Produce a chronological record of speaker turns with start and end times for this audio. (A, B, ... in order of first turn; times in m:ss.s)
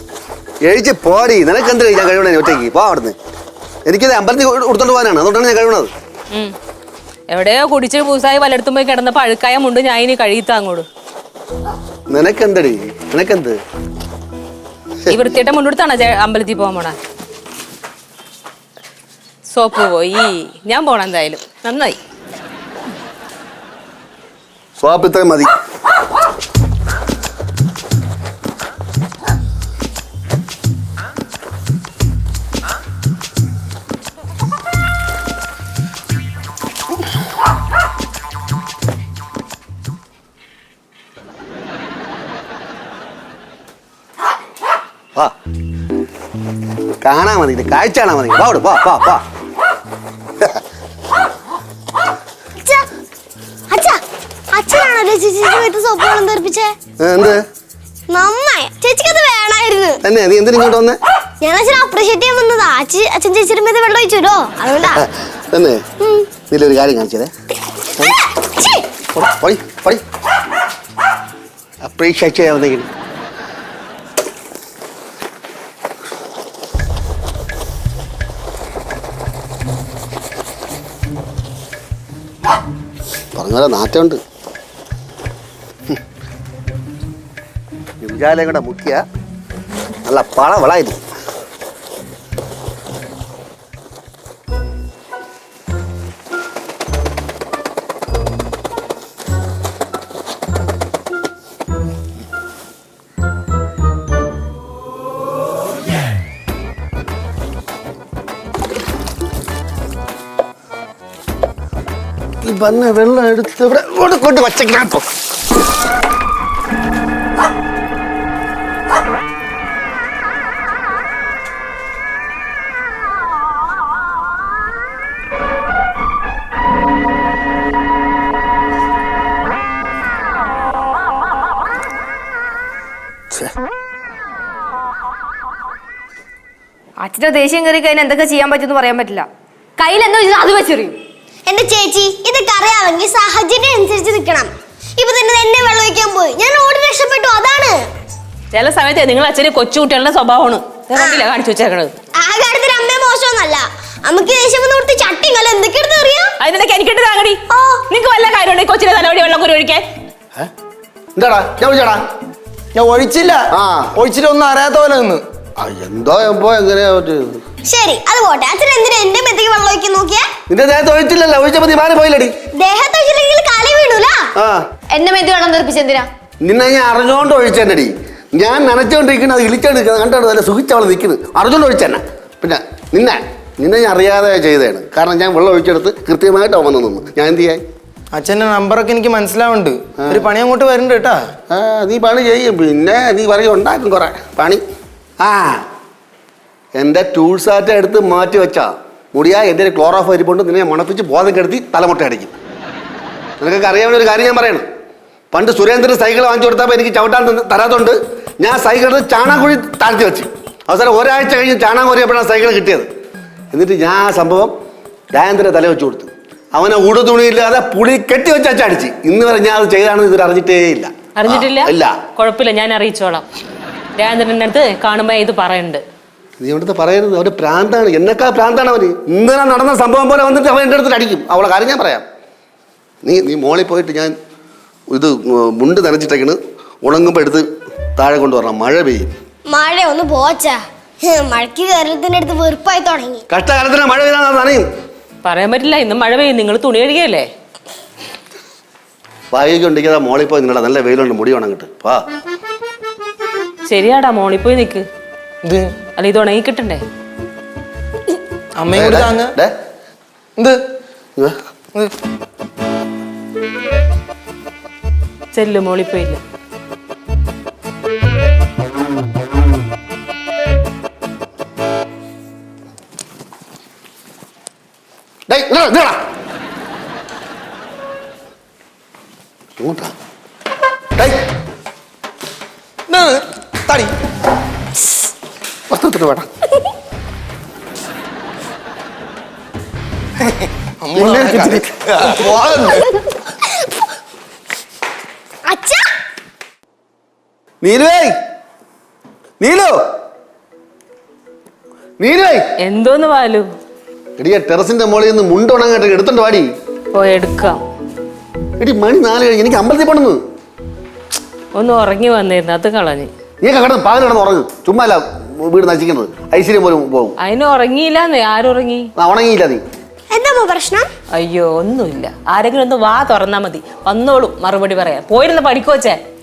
0:00.6-0:03.2 A
0:03.9-0:05.9 A
0:07.3-0:10.9 B
0:12.1-0:13.6 A
0:15.1-0:17.0 B
0:19.5-0:22.0 B
0:24.8-0:25.5 A
0:47.0-0:49.2 A
0:52.6-0:52.9 C
0:53.7-0:54.0 C
0:54.5-0:56.8 C
0:57.0-0:57.4 A
0:58.1-1:00.0 C
1:00.0-1:01.0 A
1:01.4-1:05.0 C
1:04.9-1:05.8 A
1:06.0-1:06.3 C
1:06.5-1:07.3 A
1:08.0-1:08.8 C
1:09.1-1:10.0 A
1:11.8-1:12.9 A
1:23.4-1:24.2 A
1:28.0-1:29.0 A
1:30.1-1:31.0 A
1:52.4-1:55.0 A
2:17.0-2:19.3 D
2:19.8-2:21.0 D
2:21.5-2:27.8 C
2:28.5-2:32.0 B
2:31.0-2:31.2 C
2:32.2-2:36.3 C
2:36.4-2:39.8 B
2:37.5-2:37.8 C
2:41.2-2:42.0 A
2:42.7-2:45.2 E
2:43.5-2:43.9 A
2:45.6-2:47.4 A
2:47.6-2:50.3 C
2:50.5-2:52.3 A
2:52.6-2:54.3 C
2:54.4-2:54.6 A
2:54.9-2:56.1 D
2:56.4-3:07.6 A
3:08.1-3:11.3 E
3:11.5-3:14.6 A
3:15.2-3:15.7 A
3:16.8-3:22.4 A
3:23.4-3:24.6 A
3:25.3-3:32.9 A
3:33.5-3:34.5 A
3:35.1-3:42.0 A
3:41.2-3:43.2 B
3:44.0-3:45.8 B
3:46.4-3:52.0 A
3:53.0-3:54.2 A
3:54.9-3:57.4 A
3:58.0-3:59.1 A
3:59.5-4:03.2 C
4:03.3-4:04.7 A
4:05.2-4:07.3 B
4:09.3-4:12.0 A
4:13.6-4:14.8 B
4:15.4-4:15.7 E
4:16.0-4:16.8 B
4:18.6-4:19.3 E
4:18.7-4:19.5 A
4:25.3-4:26.2 B
4:35.3-4:36.0 A
4:39.6-4:39.9 A
4:42.9-4:43.9 E
4:45.7-4:46.3 A
4:50.2-4:52.9 E
4:51.0-4:51.7 A
4:55.4-4:55.9 C
4:57.6-4:58.1 A
4:59.4-4:59.8 A
5:02.0-5:02.4 A
5:02.6-5:03.5 B
5:04.2-5:06.5 A
5:06.9-5:07.6 B
5:08.6-5:10.2 A
5:11.6-5:13.1 B
5:13.4-5:17.1 A
5:17.2-5:18.9 B
5:19.0-5:19.6 A
5:20.1-5:20.9 C
5:21.1-5:26.0 B